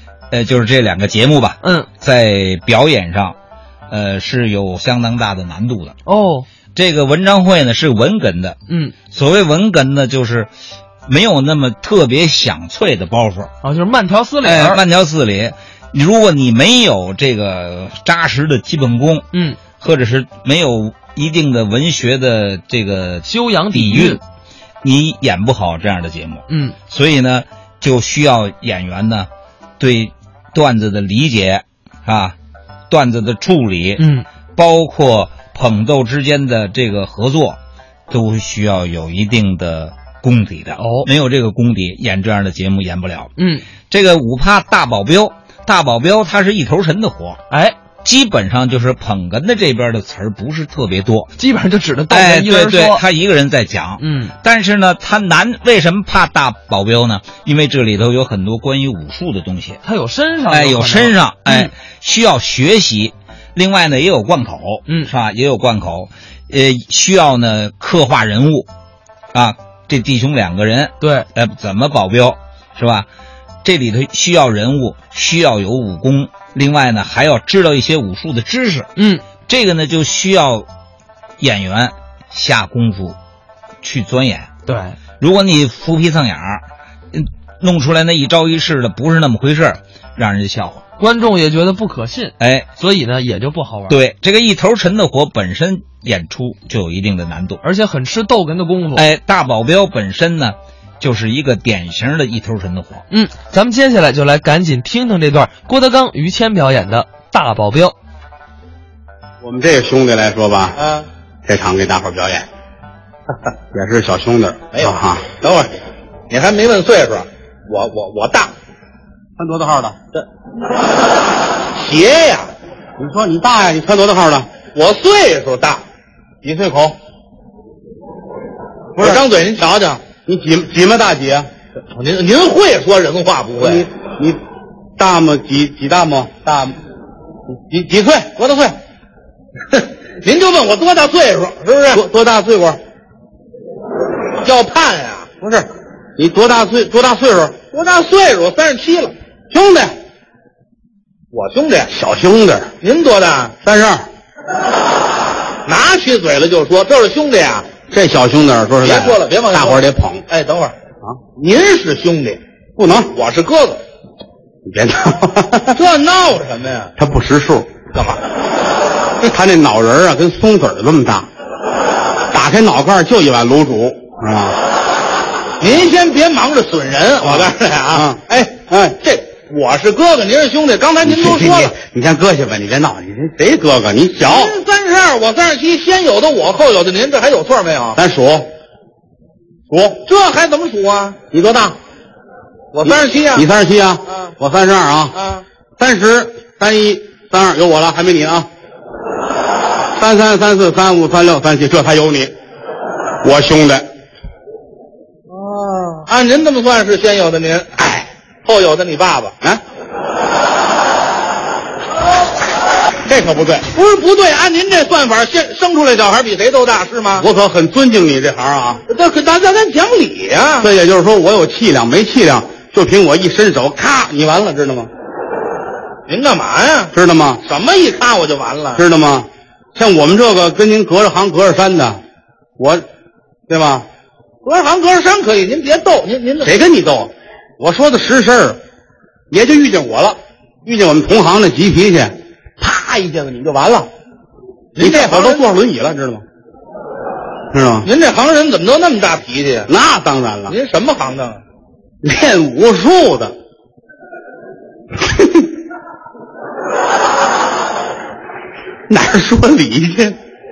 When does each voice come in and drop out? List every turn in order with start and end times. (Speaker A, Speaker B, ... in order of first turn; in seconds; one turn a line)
Speaker A: 0.3-3.4
Speaker B: 1.6-1.9
Speaker A: 3.9-6.0
Speaker B: 6.0-6.5
Speaker A: 6.8-8.6
Speaker B: 8.7-8.9
Speaker A: 9.1-10.5
Speaker A: 11.1-13.5
Speaker B: 13.6-14.8
Speaker A: 14.4-19.3
Speaker B: 19.3-19.6
Speaker A: 19.8-24.2
Speaker B: 23.2-24.2
Speaker A: 24.8-32.4
Speaker B: 26.5-26.8
Speaker A: 32.9-37.6
Speaker B: 34.0-34.3
Speaker A: 38.1-43.3
Speaker B: 40.8-41.1
Speaker B: 43.4-43.6
Speaker A: 43.9-47.4
Speaker B: 47.5-47.8
Speaker A: 48.0-51.3
Speaker B: 51.4-53.0
Speaker A: 52.1-59.8
Speaker B: 54.0-54.3
Speaker B: 59.8-61.7
Speaker A: 60.5-68.7
Speaker A: 69.3-73.1
Speaker B: 71.0-71.3
Speaker A: 73.6-78.9
Speaker B: 79.0-79.2
Speaker A: 79.5-80.7
Speaker A: 81.4-83.2
Speaker A: 83.8-84.5
Speaker B: 84.7-85.0
Speaker A: 85.2-90.8
Speaker B: 91.0-94.0
Speaker A: 92.4-92.7
Speaker A: 93.9-97.6
Speaker B: 97.6-99.1
Speaker A: 99.0-103.0
Speaker B: 103.1-108.0
Speaker C: 109.4-110.8
Speaker D: 110.8-111.1
Speaker C: 111.5-112.5
Speaker C: 113.7-115.3
Speaker D: 114.7-115.8
Speaker D: 116.3-118.5
Speaker C: 119.4-120.0
Speaker D: 121.8-122.5
Speaker C: 123.0-124.5
Speaker D: 124.7-125.8
Speaker C: 126.4-127.0
Speaker D: 129.0-130.0
Speaker C: 129.0-129.2
Speaker C: 130.0-131.5
Speaker D: 131.9-133.9
Speaker C: 133.6-134.4
Speaker C: 135.0-136.8
Speaker C: 137.7-138.8
Speaker D: 139.7-142.0
Speaker C: 141.9-142.8
Speaker D: 144.4-145.3
Speaker C: 145.4-147.6
Speaker D: 147.7-149.1
Speaker C: 149.5-149.9
Speaker D: 151.3-151.9
Speaker C: 151.9-152.7
Speaker D: 152.8-153.5
Speaker C: 153.6-154.0
Speaker D: 155.7-157.7
Speaker C: 157.9-160.2
Speaker D: 158.8-160.7
Speaker D: 161.4-162.4
Speaker C: 162.8-163.1
Speaker D: 163.1-163.8
Speaker C: 164.7-165.8
Speaker D: 165.7-166.9
Speaker C: 167.0-167.7
Speaker D: 167.9-168.2
Speaker C: 169.3-171.3
Speaker C: 172.3-174.6
Speaker D: 175.6-181.7
Speaker C: 177.2-179.1
Speaker C: 181.0-184.6
Speaker D: 184.2-188.0
Speaker C: 187.9-188.5
Speaker C: 189.7-190.0
Speaker D: 190.1-191.2
Speaker C: 191.3-191.8
Speaker D: 192.7-193.4
Speaker C: 192.8-195.2
Speaker D: 195.1-195.4
Speaker C: 195.8-198.5
Speaker C: 200.0-202.3
Speaker C: 203.2-203.9
Speaker D: 205.3-209.3
Speaker C: 213.1-213.7
Speaker D: 213.7-217.2
Speaker C: 217.2-218.8
Speaker D: 218.9-220.7
Speaker C: 220.6-224.9
Speaker D: 226.1-226.9
Speaker C: 226.9-227.4
Speaker D: 227.4-228.8
Speaker C: 228.8-232.0
Speaker C: 232.6-232.8
Speaker C: 233.5-233.8
Speaker D: 234.4-236.6
Speaker C: 236.4-238.6
Speaker C: 239.3-243.9
Speaker D: 244.8-245.4
Speaker C: 244.8-246.2
Speaker C: 247.5-247.9
Speaker D: 247.8-249.7
Speaker C: 249.7-250.6
Speaker D: 250.5-251.4
Speaker C: 252.0-253.3
Speaker C: 258.9-260.2